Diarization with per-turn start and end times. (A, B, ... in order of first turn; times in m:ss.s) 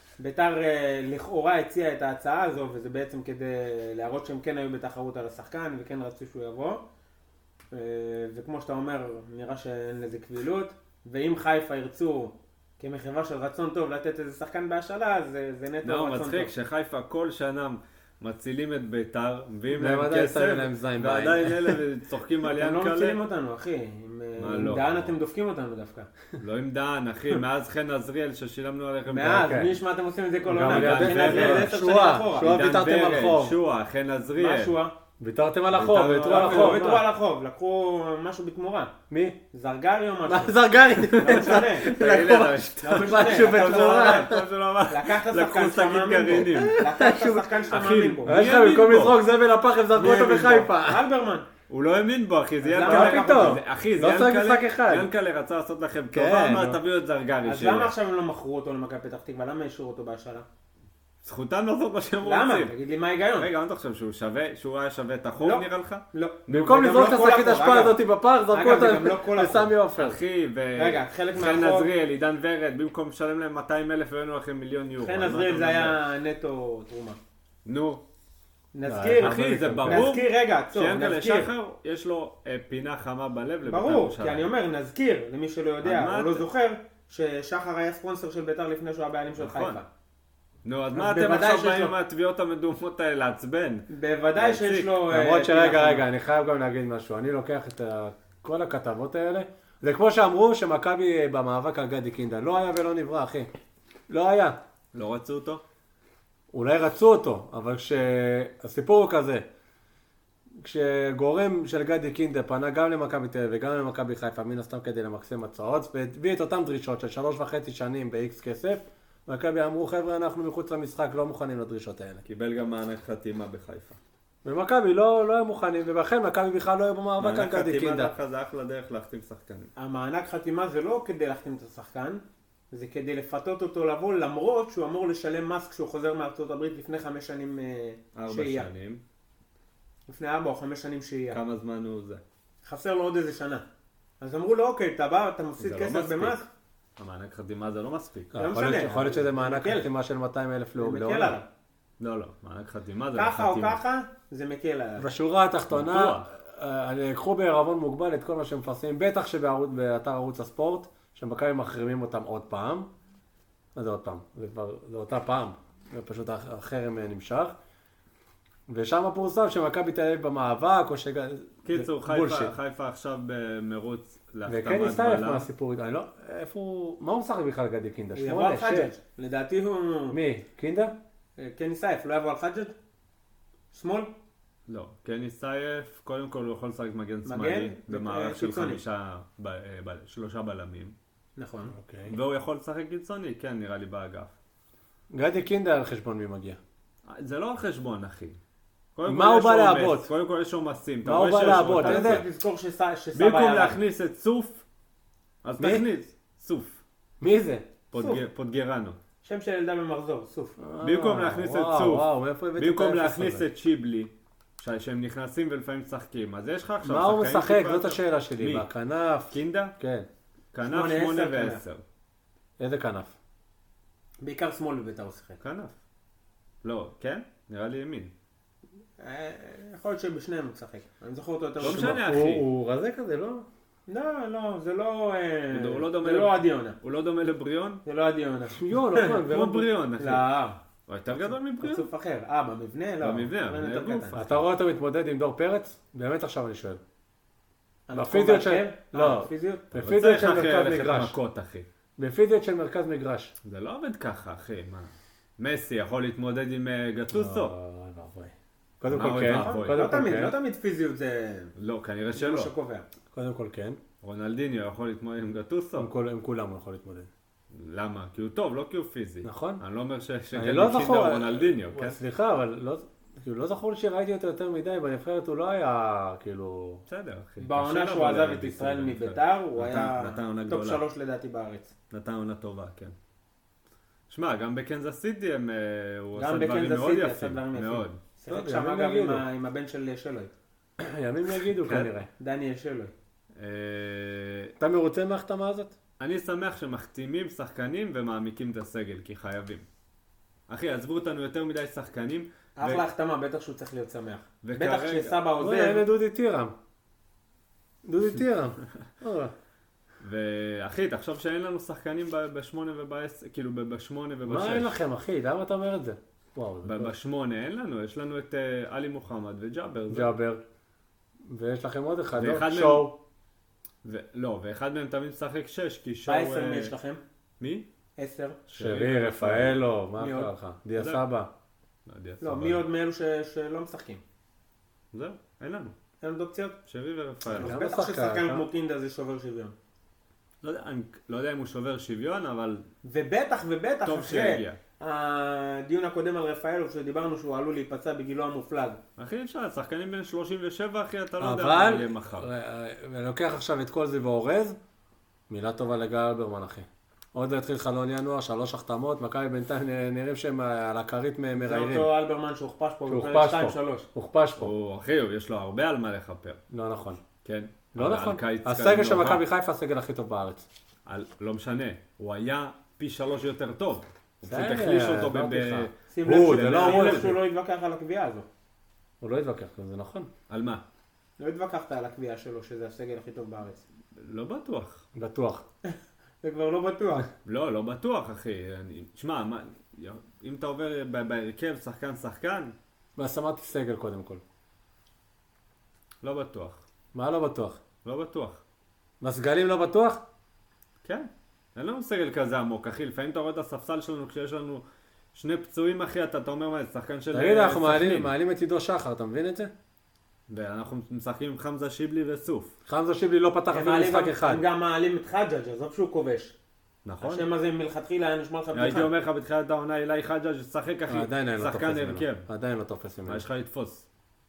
0:00.2-0:06.8 A
0:07.7-0:16.5 A
0:15.8-0:23.2 B
0:19.7-0:21.8 C
0:22.5-0:26.1 A
0:24.4-0:25.1 B
0:26.4-0:29.5 B
0:29.1-0:32.5 A
0:29.2-0:29.7 C
0:30.4-0:33.6 C
0:30.6-0:31.8 B
0:32.3-0:34.8 B
0:34.4-0:34.9 A
0:35.2-0:37.0 C
0:35.7-0:36.9 B
0:36.2-0:38.9 A
0:39.1-0:39.4 C
0:39.5-0:41.9 A
0:40.3-0:44.4 C
0:41.1-0:46.8 B
0:42.8-0:48.4 A
0:46.5-0:51.0 C
0:47.7-0:49.2 B
0:49.9-0:51.5 A
0:51.7-0:57.9 B
0:52.6-0:53.6 A
0:52.8-0:55.1 C
0:56.1-0:56.8 C
0:57.4-1:00.4 A
1:01.2-1:02.7 B
1:02.2-1:03.5 A
1:03.4-1:06.8 B
1:05.4-1:09.7 A
1:06.5-1:10.2 C
1:10.0-1:16.0 B
1:10.8-1:11.9 A
1:15.0-1:17.2 A
1:17.6-1:18.0 B
1:18.7-1:21.5 A
1:18.8-1:20.0 C
1:19.2-1:24.5 B
1:23.6-1:29.9 A
1:25.8-1:26.5 B
1:29.4-1:29.8 B
1:30.6-1:35.0 B
1:30.9-1:32.0 A
1:33.9-1:36.0 A
1:35.1-1:43.5 C
1:44.1-1:44.6 C
1:44.9-1:45.6 B
1:46.5-1:49.4 C
1:50.6-2:02.2 C
2:02.2-2:04.0 B
2:04.4-2:08.1 C
2:07.2-2:09.7 B
2:09.8-2:18.7 A
2:18.1-2:19.0 B
2:20.1-2:21.4 A
2:21.3-2:22.2 B
2:22.6-2:23.6 A
2:24.2-2:26.5 A
2:25.6-2:26.4 B
2:27.0-2:28.3 B
2:28.3-2:31.4 C
2:28.3-2:29.9 A
2:30.8-2:31.4 A
2:32.0-2:33.8 B
2:33.1-2:35.1 A
2:35.0-2:42.9 C
2:35.7-2:36.3 B
2:43.7-2:47.5 C
2:48.7-2:52.5 C
2:51.6-2:55.5 B
2:54.4-2:58.9 C
2:58.2-3:00.2 A
3:00.1-3:00.9 C
3:01.4-3:02.7 A
3:03.7-3:04.1 A
3:04.7-3:11.0 B
3:07.2-3:08.8 A
3:11.4-3:11.7 A
3:11.7-3:12.2 C
3:12.0-3:14.4 B
3:15.1-3:16.6 C
3:17.0-3:18.4 B
3:19.0-3:22.2 B
3:19.1-3:20.1 C
3:21.0-3:22.2 C
3:21.5-3:23.8 A
3:23.1-3:24.6 B
3:25.4-3:26.8 B
3:25.6-3:25.8 C
3:27.2-3:27.7 C
3:27.9-3:29.0 B
3:27.9-3:28.2 A
3:29.2-3:30.6 A
3:30.6-3:33.5 C
3:30.8-3:38.7 B
3:36.8-3:40.1 C
3:39.3-3:39.7 B
3:40.5-3:41.8 B
3:40.6-3:41.6 A
3:42.6-3:43.1 C
3:44.2-3:45.4 A
3:45.4-3:45.8 B
3:46.6-3:48.1 B
3:49.0-3:52.0 A
3:51.6-3:52.4 B
3:51.6-3:53.4 C
3:53.9-3:56.8 A
3:55.5-3:57.8 B
3:57.8-3:59.3 A
3:58.5-3:59.7 C
3:59.2-4:00.2 B
4:00.0-4:00.6 A
4:00.9-4:01.9 B
4:01.6-4:04.2 A
4:03.0-4:04.4 B
4:04.1-4:06.8 C
4:07.9-4:09.7 A
4:07.9-4:11.2 C
4:09.7-4:11.7 B
4:12.0-4:13.3 C
4:13.4-4:17.5 B
4:17.1-4:20.3 C
4:18.8-4:19.8 B
4:19.0-4:21.5 A
4:21.6-4:22.5 B
4:22.1-4:22.8 A
4:23.1-4:23.8 C
4:24.0-4:25.9 B
4:25.8-4:27.1 C
4:27.5-4:32.0 B
4:29.2-4:29.6 C
4:30.3-4:36.8 C
4:36.9-4:40.8 B
4:37.4-4:41.7 A
4:41.9-4:42.9 B
4:44.1-4:48.0 B
4:46.2-4:50.3 A
4:48.3-4:49.2 C
4:50.8-4:52.1 C
4:51.6-4:51.9 B
4:52.2-4:52.9 A
4:53.4-4:54.5 B
4:54.6-4:55.8 C
4:56.0-4:59.7 B
5:00.5-5:02.8 B
5:02.6-5:05.8 A
5:04.4-5:05.2 B
5:05.4-5:06.5 C
5:07.8-5:09.3 C
5:10.0-5:14.8 B
5:14.2-5:16.9 C
5:16.6-5:20.1 B
5:19.9-5:20.4 C
5:21.2-5:23.0 C
5:22.1-5:22.9 B
5:23.8-5:26.7 B
5:26.0-5:27.0 A
5:27.4-5:27.7 B
5:28.0-5:28.4 A
5:28.5-5:29.6 B
5:28.5-5:31.3 C
5:30.0-5:30.3 A
5:30.8-5:31.0 B
5:31.8-5:32.6 B
5:32.2-5:34.0 A
5:34.9-5:35.8 B
5:36.0-5:36.6 A
5:36.6-5:37.6 B
5:37.3-5:39.5 A
5:37.4-5:38.4 C
5:40.4-5:42.7 B
5:42.8-5:48.8 A
5:43.8-5:44.6 B
5:49.0-5:52.3 B
5:51.2-5:54.6 C
5:55.3-6:01.9 C
6:01.4-6:03.9 A
6:02.9-6:04.5 C
6:04.4-6:06.4 B
6:06.5-6:07.0 C
6:07.2-6:09.2 B
6:07.7-6:10.5 C
6:10.8-6:17.2 B
6:14.2-6:17.1 C
6:15.9-6:18.3 A
6:19.0-6:20.1 C
6:20.3-6:20.6 B
6:21.2-6:23.6 A
6:23.9-6:24.8 B
6:24.9-6:25.4 C
6:25.6-6:27.1 A
6:27.2-6:32.5 B
6:33.0-6:34.2 C
6:36.0-6:36.6 B
6:36.9-6:37.6 C
6:37.8-6:38.4 B
6:39.0-6:40.0 C
6:40.8-6:48.1 B
6:47.1-6:49.5 C
6:50.3-6:52.5 B
6:52.7-6:54.4 C
6:53.5-6:56.4 A
6:56.8-6:57.3 B
6:57.0-6:58.9 A
6:58.5-7:02.3 B
7:00.9-7:03.2 C
7:03.1-7:03.9 B